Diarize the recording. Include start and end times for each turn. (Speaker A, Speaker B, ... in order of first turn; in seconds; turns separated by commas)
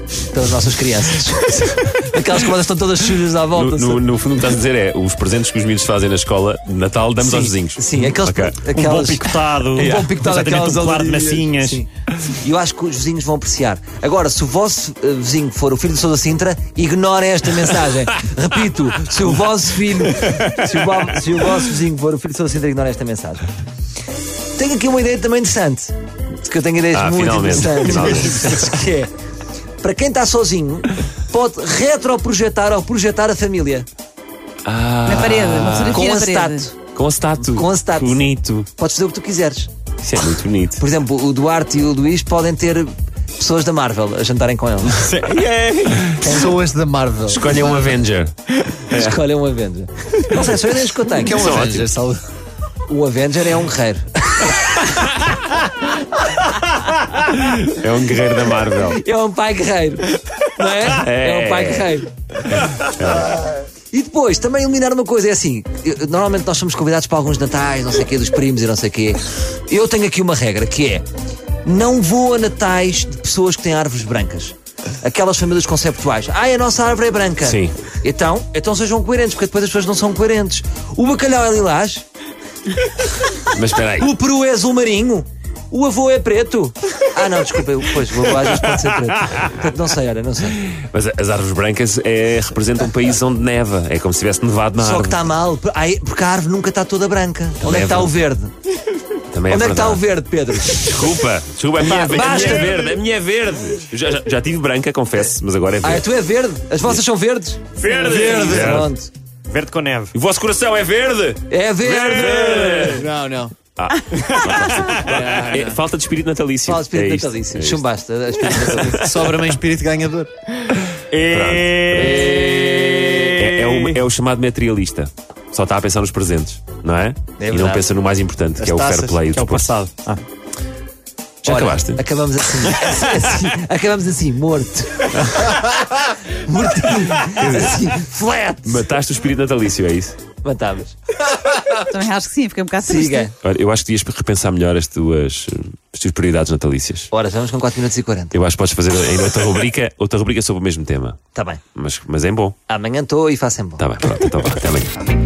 Speaker A: 0.3-4.0, Speaker B: 3.5-8.6, Speaker A: 7.2-23.4, Speaker C: 8.6-11.8, Speaker B: 9.8-10.1, Speaker A: 24.6-29.1, Speaker B: 26.9-28.7, Speaker A: 29.8-33.9, Speaker B: 34.6-36.0, Speaker D: 35.0-36.7, Speaker A: 35.8-36.7, Speaker B: 36.9-38.7, Speaker A: 37.4-39.7, Speaker B: 40.0-40.8, Speaker A: 40.8-45.1, Speaker E: 44.9-45.4, Speaker B: 45.4-46.4, Speaker C: 45.4-45.9, Speaker E: 46.2-47.9, Speaker B: 47.3-49.2, Speaker A: 48.9-51.5, Speaker E: 51.1-52.2, Speaker B: 51.3-51.9, Speaker A: 52.9-54.9, Speaker B: 57.2-59.0, Speaker A: 58.9-62.1, Speaker B: 60.8-61.9, Speaker B: 62.7-63.4, Speaker A: 63.9-71.0, Speaker A: 71.6-82.0, Speaker B: 77.4-77.8, Speaker B: 83.5-84.1, Speaker A: 84.0-90.6, Speaker B: 88.7-89.6, Speaker B: 90.5-95.2, Speaker A: 94.8-98.5, Speaker B: 97.6-98.1, Speaker B: 99.3-100.0, Speaker A: 99.5-100.8, Speaker B: 100.7-106.0, Speaker A: 101.9-102.7, Speaker C: 102.0-102.7, Speaker A: 105.8-107.6, Speaker C: 107.8-108.5, Speaker E: 107.9-108.9, Speaker B: 108.3-108.9, Speaker A: 108.4-109.1, Speaker C: 109.5-110.1, Speaker B: 110.1-113.1, Speaker A: 111.5-112.9, Speaker E: 112.4-113.5, Speaker B: 113.8-117.8, Speaker C: 114.2-115.1, Speaker E: 115.0-115.8, Speaker A: 116.7-119.0, Speaker B: 118.4-119.3, Speaker E: 118.7-120.3, Speaker C: 119.2-119.6, Speaker C: 121.1-124.0, Speaker B: 121.2-122.5, Speaker A: 121.9-123.3, Speaker B: 123.1-129.8, Speaker A: 127.4-127.9, Speaker E: 128.6-129.3, Speaker C: 129.3-130.2, Speaker B: 131.4-132.0, Speaker A: 131.4-138.8, Speaker B: 137.2-137.9, Speaker B: 138.6-140.2, Speaker A: 140.4-140.9, Speaker D: 141.7-143.3, Speaker A: 142.8-143.3, Speaker B: 143.4-147.1, Speaker A: 147.1-148.3, Speaker B: 148.3-151.2, Speaker A: 151.3-151.6, Speaker B: 151.7-152.6, Speaker A: 152.7-153.8, Speaker B: 153.8-155.1